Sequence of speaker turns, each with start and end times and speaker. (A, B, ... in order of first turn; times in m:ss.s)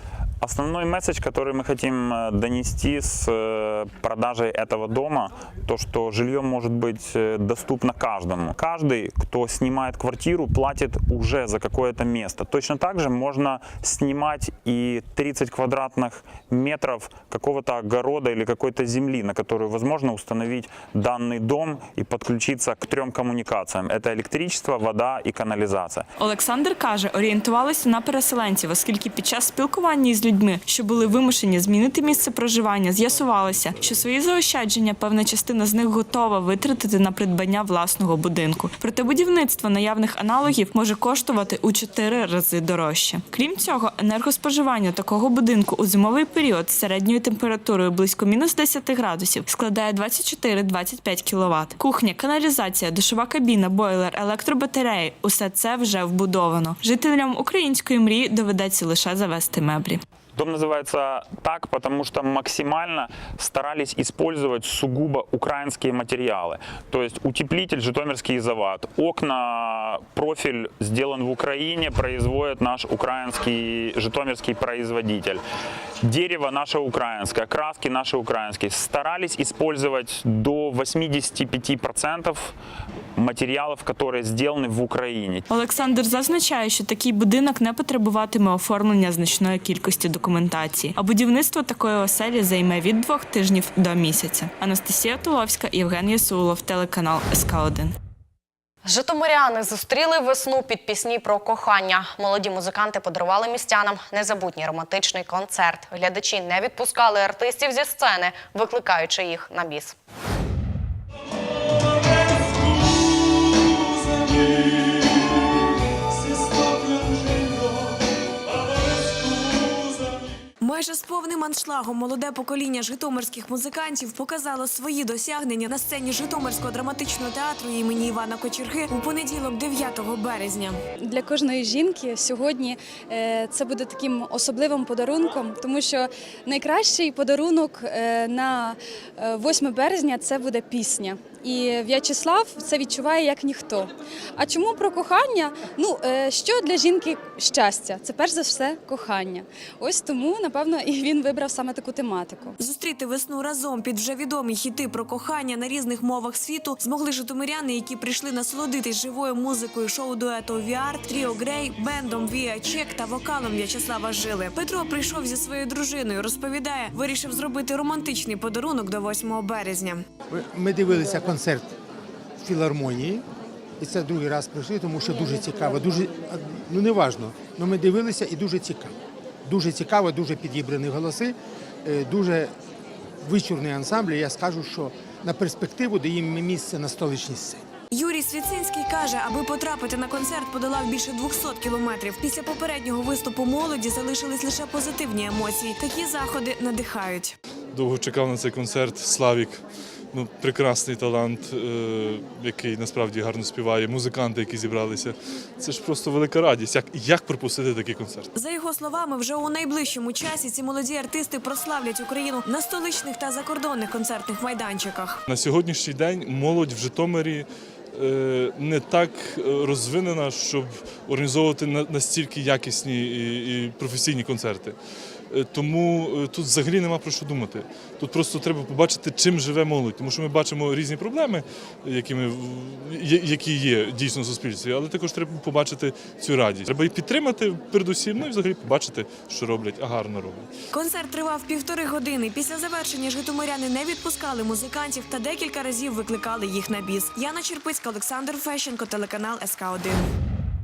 0:00.4-0:26.1 A
0:26.2-1:00.0 B
1:00.3-1:15.4 A
1:16.0-1:22.5 A
1:23.2-1:25.4 A
1:25.5-1:37.9 B
1:38.8-1:50.0 C
2:00.6-2:10.8 D
2:11.1-2:32.5 E
2:32.6-2:50.0 D
2:50.3-2:51.7 F
2:52.4-2:53.2 F
2:53.8-2:58.9 F
2:59.4-3:01.3 F
3:01.8-3:02.5 F
3:03.2-3:07.6 F
3:07.9-3:17.4 D
3:17.7-3:19.6 G
3:20.1-3:28.3 G
3:28.3-3:35.2 D
3:35.3-3:44.7 G
3:45.3-4:00.5 G
4:00.7-4:10.1 D